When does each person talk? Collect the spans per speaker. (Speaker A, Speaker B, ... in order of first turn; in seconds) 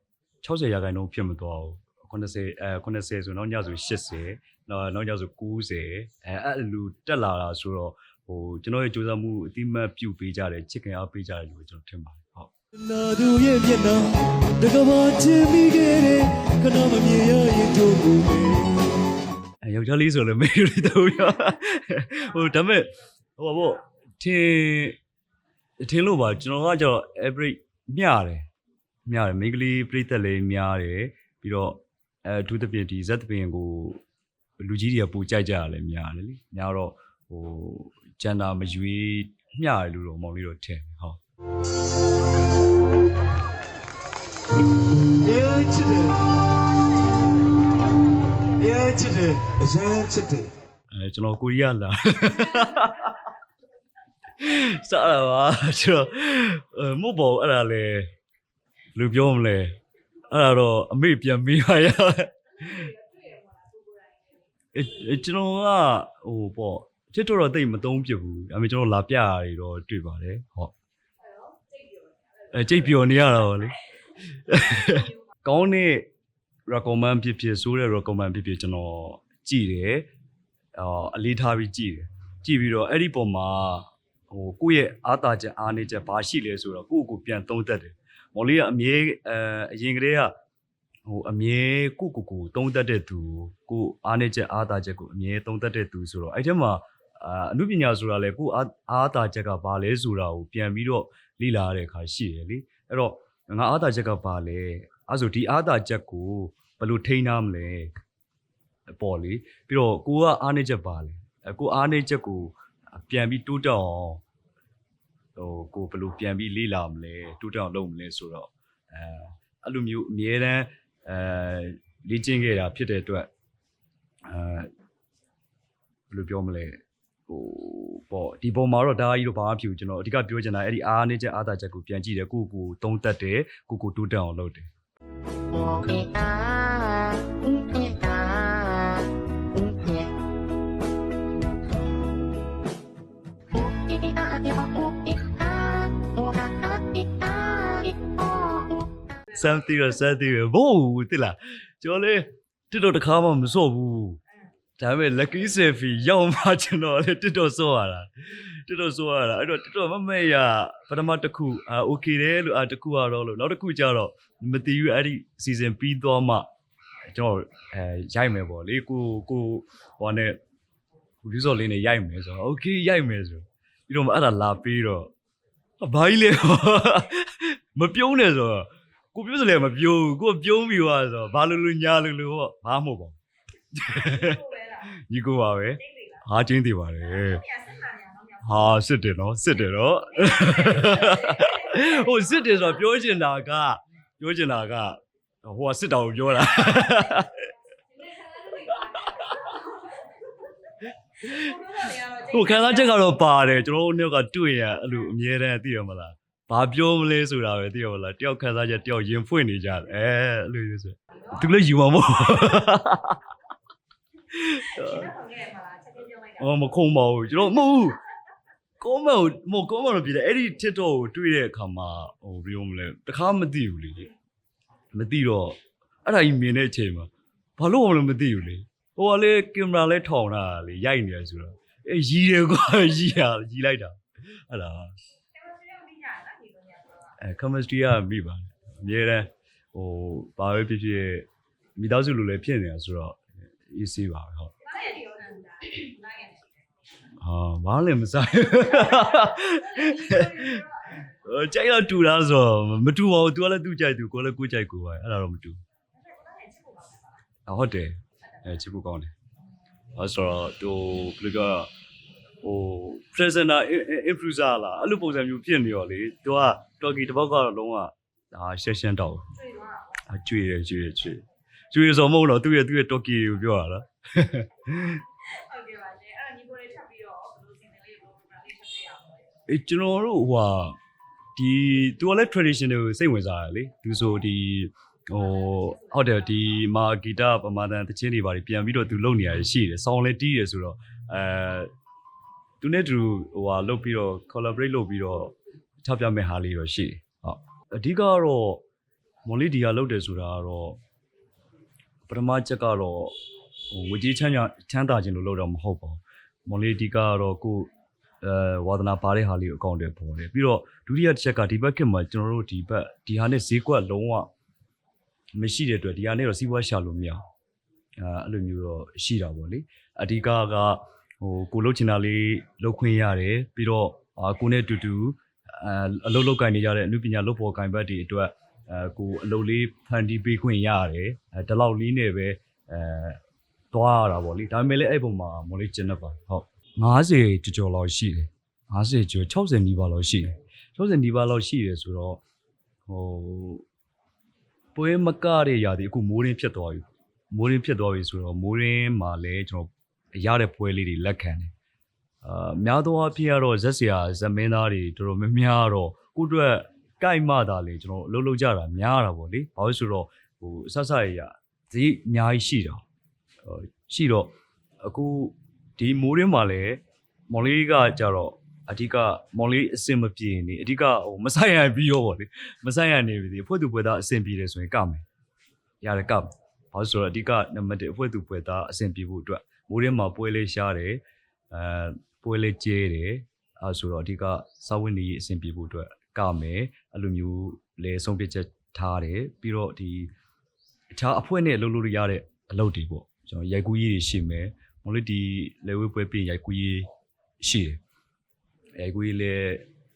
Speaker A: 0.4-12.5, 19.6-25.0, 25.8-28.5, 29.1-34.0, 34.6-41.2, 50.9-53.2, 54.3-58.1, 58.9-59.8, 60.3-62.9, 64.7-70.7, 72.5-76.1, 76.7-80.1, 80.7-90.3, 91.0-107.9, 108.9-114.2, 115.3-123.3, 124.3-124.7, 126.1-134.7, 149.3-154.2, 154.8-166.4, 167.1-170.4, 171.2-175.1, 175.8-183.2, 183.7-187.5, 188.4-197.5, 198.4-199.6, 201.2-213.2, 214.3-215.2, 216.3-218.0, 218.8-224.1, 224.9-234.9, 237.2-244.6, 247.2-255.6, 257.5-259.1, 259.9-261.7, 262.4-269.4, 270.1-275.0, 279.5-280.8, 281.4-291.7, 292.6-298.6, 299.2-300.8, 302.1-303.1, 303.7-307.7, 308.2-314.3, 315.3-317.2, 318.0-333.2, 333.7-342.2, 342.9-343.6, 344.7-351.5, 352.2-362.8, 363.4-364.3, 364.8-375.0, 375.8-390.1, 390.9-396.9, 397.4-397.8, 398.8-399.6
Speaker B: 12.8-18.9, 45.2-46.3, 48.6-50.5
Speaker C: 62.9-64.4, 71.3-72.1, 187.4-188.4, 215.2-216.3, 235.3-237.1, 244.6-246.6, 249.6-250.6, 256.0-257.1, 269.5-269.8, 275.2-279.3